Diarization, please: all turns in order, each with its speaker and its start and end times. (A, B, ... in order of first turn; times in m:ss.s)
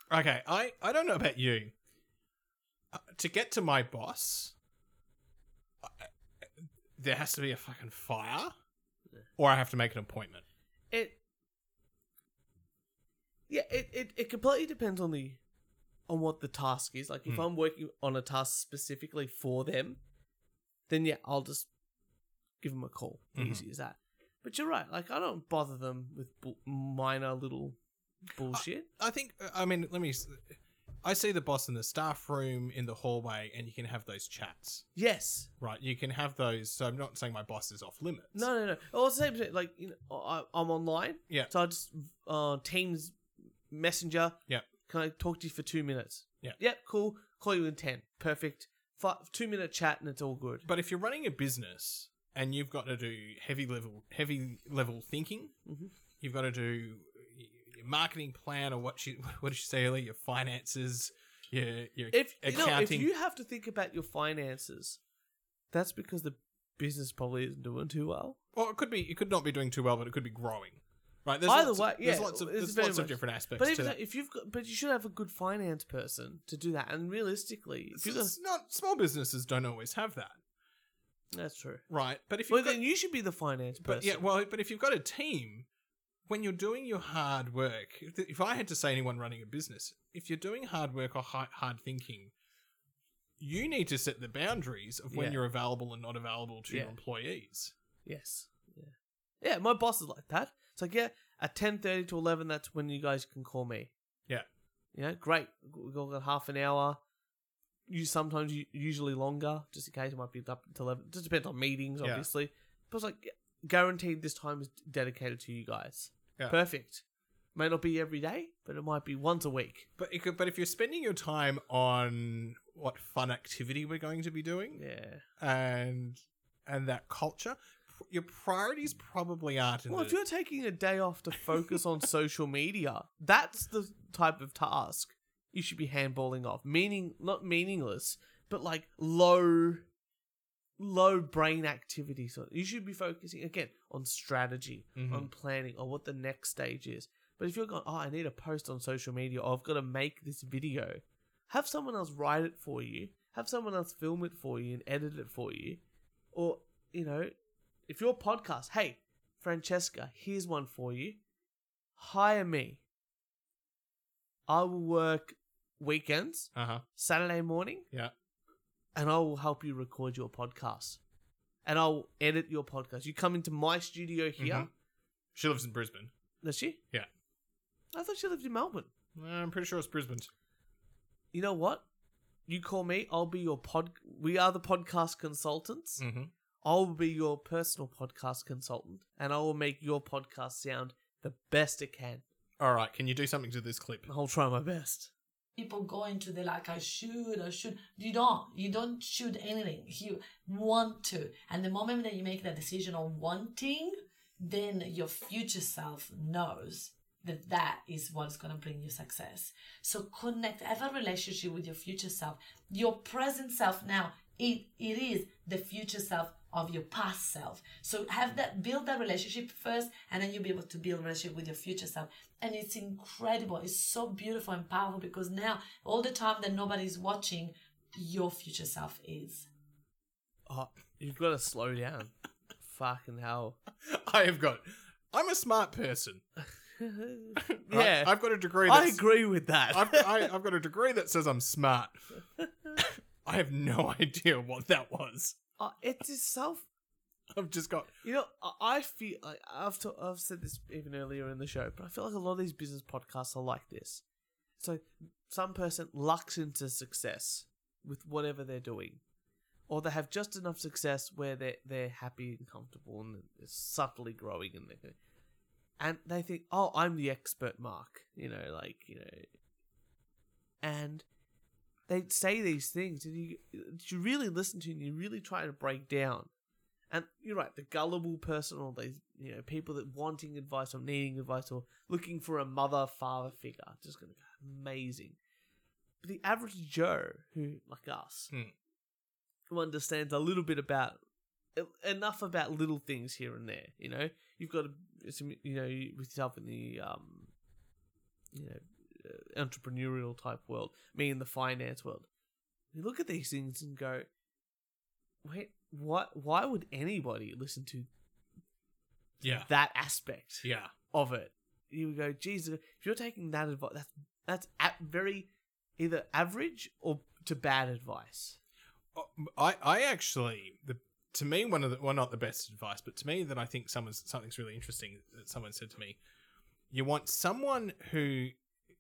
0:00.1-0:01.7 A
0:02.9-0:04.6 A
0:05.8-0:06.1 A
0:06.6-0:08.5 A
0:09.4-0:10.4 A
0:10.9-0:11.2 B
0:13.5-0:15.4 B
0:16.1-0:20.0 B
0:20.9-0:21.7 B
0:22.6-0:28.9 B
0:23.4-0:23.6 A
0:28.5-0:34.9 A
0:35.0-0:35.5 B
0:35.6-0:38.5 A
0:38.3-0:50.7 B
0:50.6-0:55.6 A
0:55.7-0:55.9 B
0:56.2-1:03.1 A
1:02.1-1:05.0 B
1:05.7-1:08.4 B
1:08.6-1:14.0 A
1:11.5-1:18.4 B
1:17.9-1:20.4 A
1:21.3-1:21.8 B
1:21.9-1:22.8 A
1:22.5-1:24.2 B
1:23.8-1:25.7 A
1:26.3-1:32.3 A
1:33.4-1:37.7 A
1:35.1-1:35.4 B
1:36.7-1:37.0 B
1:38.0-1:43.9 B
1:44.9-1:47.0 B
1:47.9-1:57.0 B
1:52.0-1:52.3 A
1:57.6-1:59.9 B
2:00.0-2:04.8 A
2:04.8-2:05.2 B
2:05.4-2:10.2 A
2:09.9-2:19.9 B
2:20.8-2:35.8 B
2:25.0-2:25.3 A
2:36.3-2:37.3 B
2:37.9-2:41.2 B
2:42.0-2:42.8 B
2:44.5-2:47.9 B
2:46.6-2:46.8 A
2:49.0-2:51.0 B
2:51.6-2:54.7 B
2:54.4-2:54.7 A
2:55.3-2:56.1 A
2:56.4-2:56.8 B
2:57.9-2:58.9 B
2:59.2-3:00.3 A
3:01.3-3:01.9 B
3:02.5-3:06.0 B
3:06.0-3:06.3 A
3:06.6-3:12.2 B
3:12.6-3:14.1 A
3:14.1-3:15.1 B
3:15.6-3:49.5 C
3:50.5-3:53.6 B
3:53.8-3:56.2 A
3:56.8-4:00.3 B
3:57.4-3:59.0 A
3:59.7-4:02.0 A
4:02.8-4:05.4 A
4:05.6-4:06.7 B
4:07.3-4:07.9 A
4:08.0-4:14.0 B
4:14.6-4:19.0 B
4:19.7-4:25.0 B
4:25.8-4:29.3 B
4:30.6-4:31.0 B
4:31.9-4:36.3 B
4:36.9-4:45.2 B
4:46.0-4:48.3 B
4:49.5-4:51.0 B
4:51.6-4:57.3 B
4:58.3-5:02.1 B
5:02.7-5:04.1 B
5:05.2-5:07.9 B
5:09.2-5:09.5 A
5:09.5-5:18.4 B
5:10.4-5:10.7 A
5:19.0-5:26.0 A
5:26.7-5:28.4 A